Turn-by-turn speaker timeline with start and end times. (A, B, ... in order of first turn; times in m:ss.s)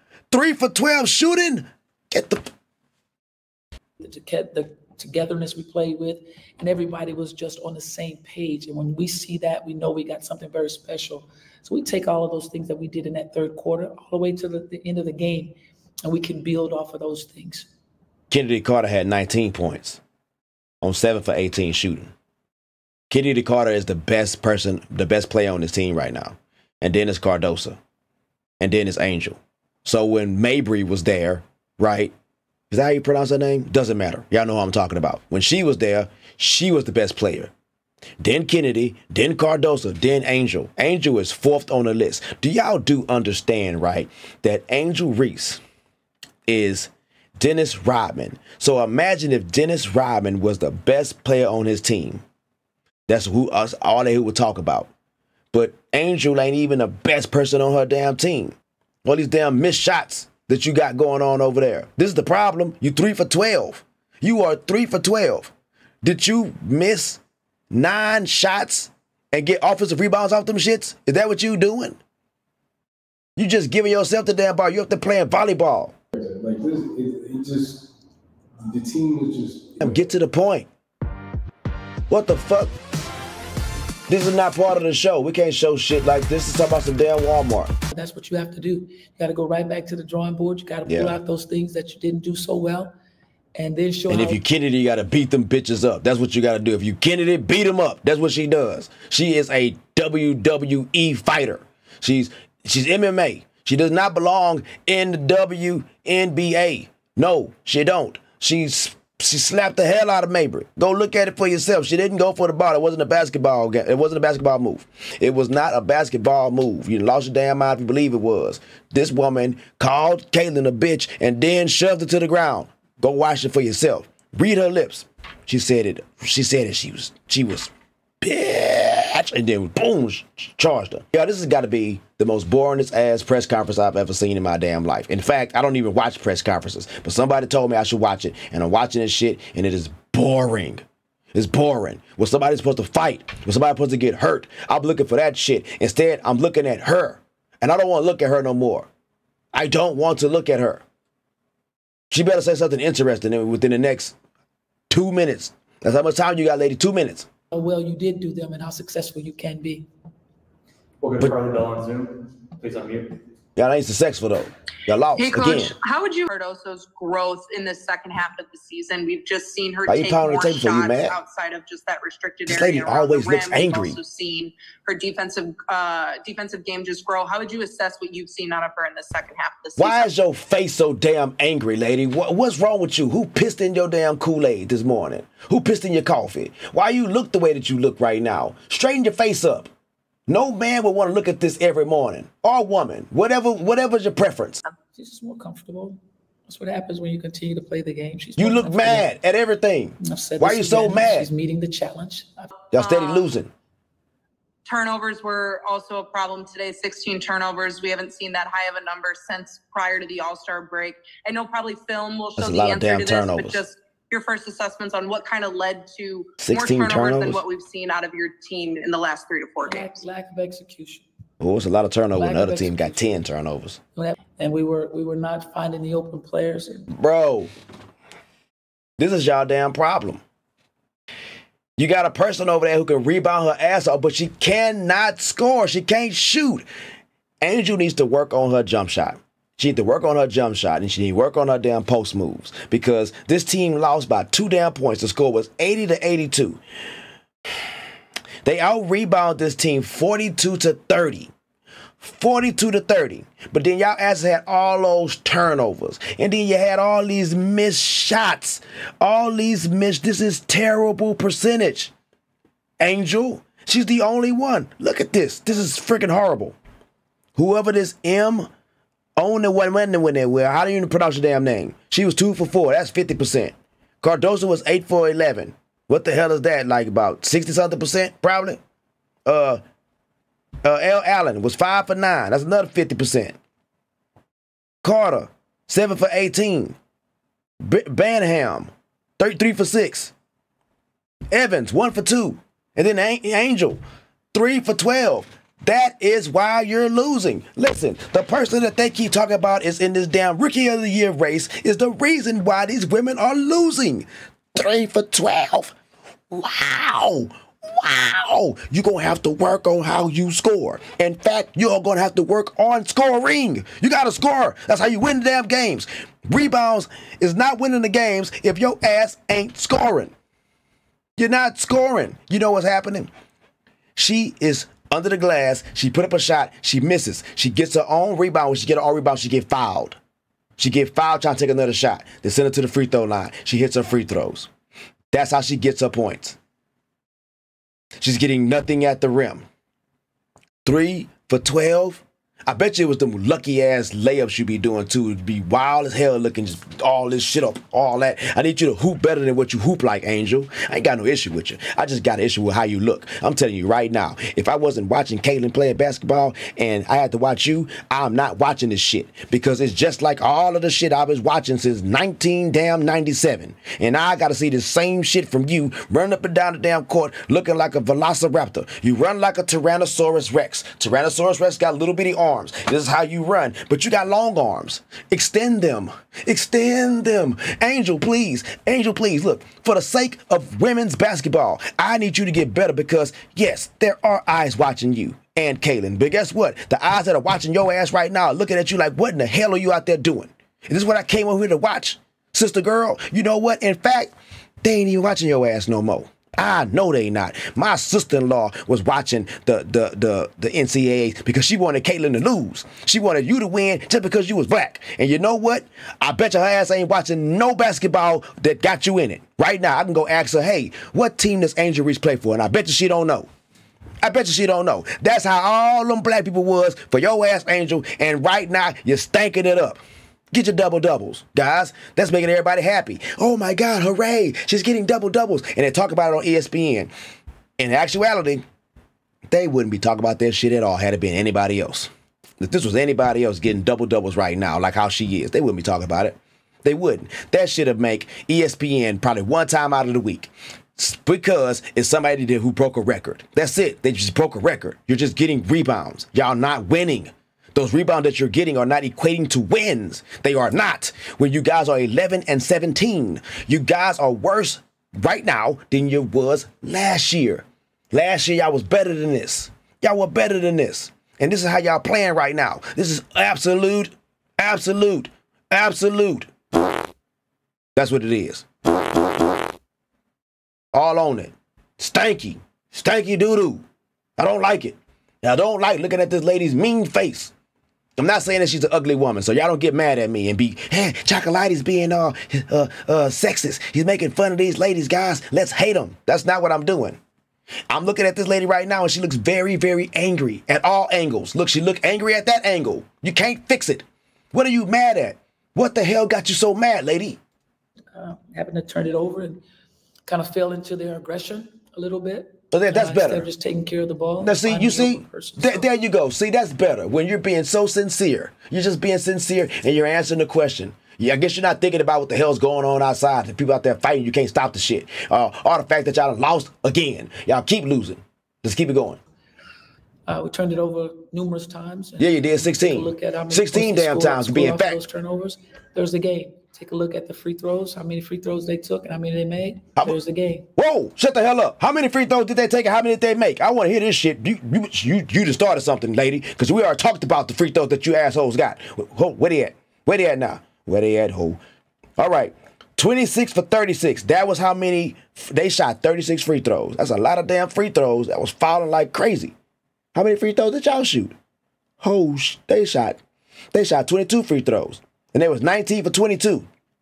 0:00.3-0:02.5 A
0:04.0-0:15.5 B
0:16.0-0:17.7 B
0:18.3-0:20.0 A
0:20.8-0:22.1 A
0:23.1-0:27.8 A
0:28.6-0:32.1 A
0:32.7-0:37.5 A
0:38.2-0:45.6 A
0:46.5-0:52.2 A
0:53.1-0:54.9 A
0:55.5-0:58.5 A
0:59.0-1:05.5 A
1:06.0-1:07.2 A
1:07.7-1:12.0 A
1:13.4-1:16.0 A
1:16.1-1:17.9 C
1:18.6-1:20.1 C
1:19.8-1:20.7 A
1:22.1-1:22.7 A
1:24.1-1:27.7 A
1:27.9-1:32.9 B
1:30.9-1:31.2 A
1:33.6-1:34.4 B
1:34.1-2:20.8 A
2:21.3-2:28.9 A
2:29.5-2:30.8 A
2:32.1-2:34.1 A
2:34.9-2:37.3 A
2:37.5-2:39.9 B
2:41.0-2:43.1 D
2:43.6-2:45.7 A
2:45.2-3:00.1 E
2:49.9-2:51.2 A
2:52.5-2:54.0 A
2:59.8-3:09.7 A
3:10.3-3:14.6 A
3:14.9-3:19.1 B
3:18.4-3:21.3 A
3:20.0-3:22.3 B
3:22.7-3:23.5 A
3:22.7-3:23.3 E
3:24.7-3:40.0 E
3:32.4-3:33.6 A
3:36.4-3:37.4 A
3:39.6-3:41.1 B
3:41.4-3:43.8 A
3:42.1-3:43.1 B
3:44.0-3:46.9 B
3:46.9-3:47.5 A
3:49.0-3:50.2 A
3:51.8-3:56.6 A
3:57.4-4:06.6 A
4:08.4-4:11.3 A
4:12.0-4:21.9 A
4:22.8-4:26.6 A
4:27.4-4:28.5 A
4:29.2-4:38.6 A
4:39.3-4:39.6 A
4:40.6-4:43.4 A
4:44.8-4:46.8 A
4:47.6-4:50.1 A
4:51.3-4:53.8 A
4:54.3-5:05.8 A
5:06.3-5:20.1 A
5:21.2-5:23.1 A
5:24.0-5:30.0 A
5:30.6-5:34.5 A
5:35.1-5:36.4 A
5:38.0-5:39.4 A
5:40.6-6:34.1 A
6:34.6-6:53.3 A
6:54.0-6:59.8 A
7:00.3-7:06.9 A
7:07.6-7:08.4 A
7:09.3-7:46.3 A
7:47.8-7:48.5 A
7:50.7-7:53.6 A
7:54.2-7:57.3 A
7:58.0-8:07.0 A
8:07.7-8:17.2 A
8:17.9-8:19.4 B
8:20.1-8:25.7 B
8:22.5-8:23.3 A
8:24.2-8:39.0 A
8:40.1-8:50.5 B
8:42.0-8:44.8 A
8:50.6-9:01.4 A
9:02.0-9:09.3 A
9:09.9-9:11.2 A
9:11.8-9:13.0 A
9:13.5-9:16.5 A